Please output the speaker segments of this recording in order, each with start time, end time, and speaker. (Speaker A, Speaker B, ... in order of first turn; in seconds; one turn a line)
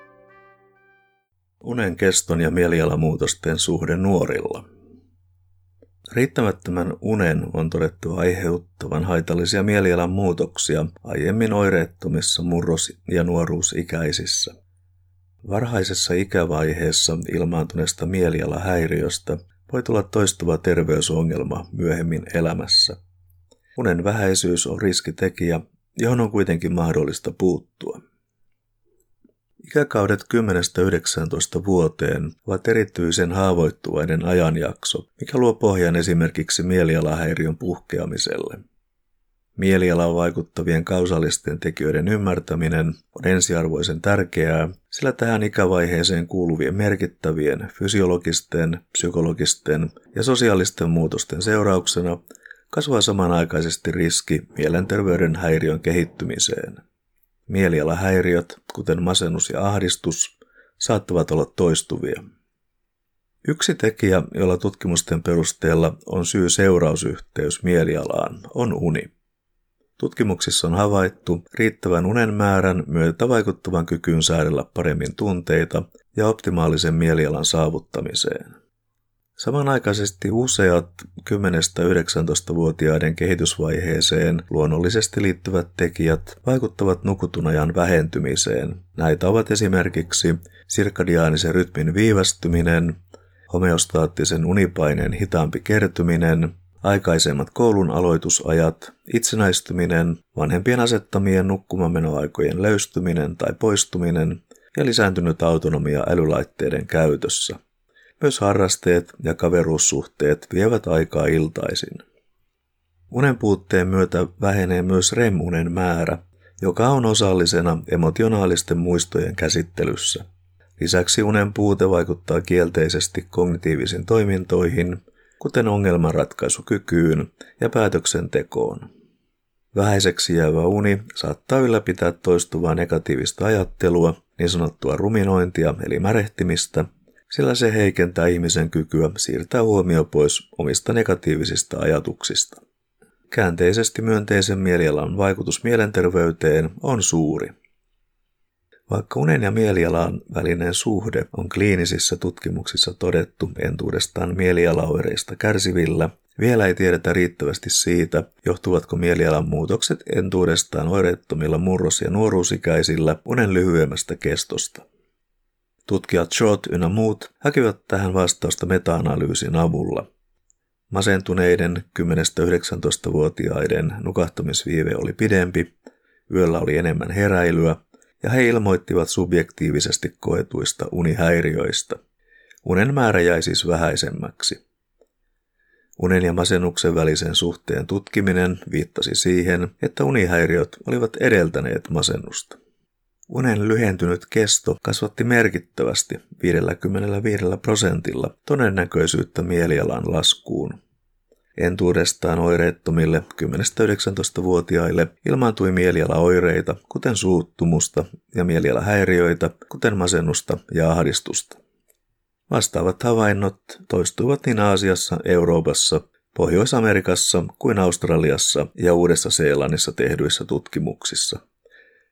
Speaker A: 1.6-4.7
Speaker A: 6.1-14.5
Speaker A: 15.4-23.0
Speaker A: 23.8-28.0
Speaker A: 29.6-38.6
Speaker A: 39.6-56.8
Speaker A: 57.5-62.2
Speaker A: 63.5-69.1
Speaker A: 70.0-78.5
Speaker A: 79.4-93.0
Speaker A: 93.5-107.6
Speaker A: 108.2-112.0
Speaker A: 113.1-120.2
Speaker A: 120.8-128.9
Speaker A: 129.7-142.6
Speaker A: 143.3-147.5
Speaker A: 148.9-164.8
Speaker A: 165.9-170.1
Speaker A: 170.9-175.7
Speaker A: 176.3-182.0
Speaker A: 182.6-184.6
Speaker A: 186.0-192.6
Speaker A: 193.3-200.8
Speaker A: 201.6-211.6
Speaker A: 212.5-221.4